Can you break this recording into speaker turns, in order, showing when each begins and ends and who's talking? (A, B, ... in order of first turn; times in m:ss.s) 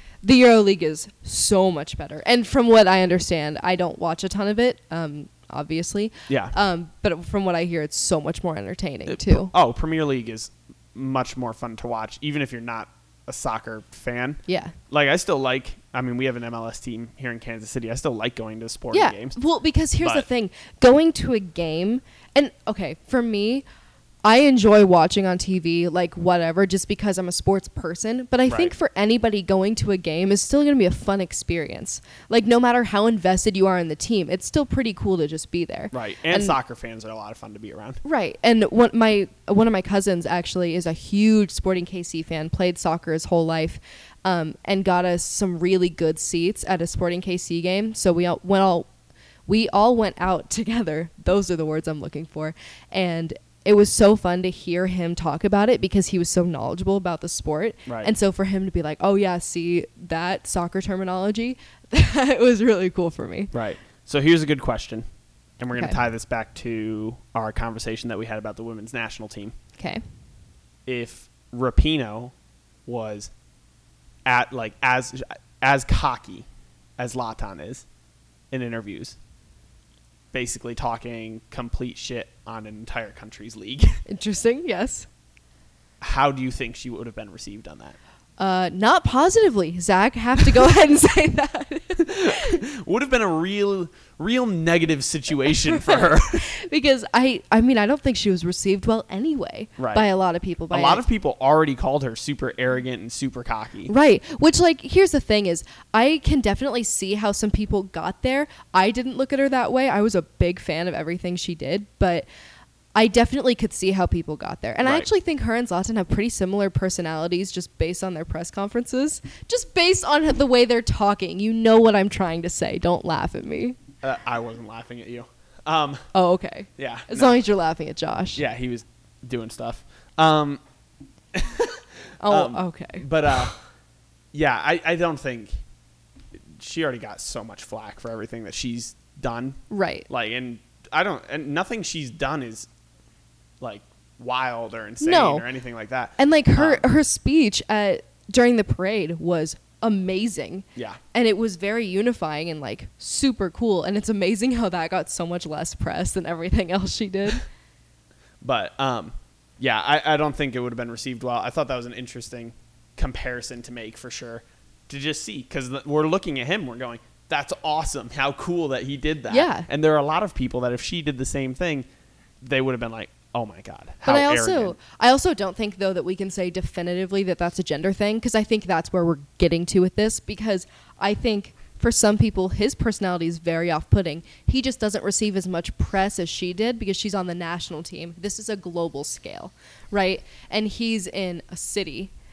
0:00.2-0:09.5 A
0:06.3-0:06.5 B
0:09.0-0:19.4 B
0:14.5-0:14.8 A
0:18.9-0:23.6 A
0:20.0-0:20.3 B
0:24.2-0:36.6 A
0:28.5-0:28.7 B
0:35.9-0:38.0 B
0:38.0-0:48.9 A
0:49.5-1:03.5 A
0:57.9-0:58.1 B
1:03.5-1:05.0 B
1:05.6-1:09.6 B
1:05.8-1:06.0 A
1:09.8-1:10.0 A
1:10.9-1:12.3 B
1:12.9-1:13.3 B
1:14.3-1:16.4 B
1:17.0-1:17.8 B
1:18.5-1:19.2 B
1:20.3-1:24.0 B
1:24.1-1:25.1 A
1:26.0-1:28.0 B
1:28.4-1:32.6 A
1:32.0-1:36.4 B
1:35.5-1:41.0 A
1:39.8-1:40.1 B
1:40.7-1:43.9 B
1:43.9-1:52.3 A
1:53.0-2:03.8 A
2:04.0-2:06.1 B
2:06.1-2:08.4 A
2:06.8-2:07.4 B
2:08.4-2:10.6 B
2:11.3-2:13.6 B
2:12.2-2:13.0 A
2:14.3-2:15.6 B
2:16.5-2:22.7 B
2:19.7-2:20.1 A
2:23.6-2:26.9 B
2:25.0-2:25.4 A
2:26.2-2:37.4 A
2:30.7-2:31.0 B
2:38.4-2:51.9 B
2:49.3-2:49.7 A
2:52.4-2:54.7 B
2:54.0-3:12.1 A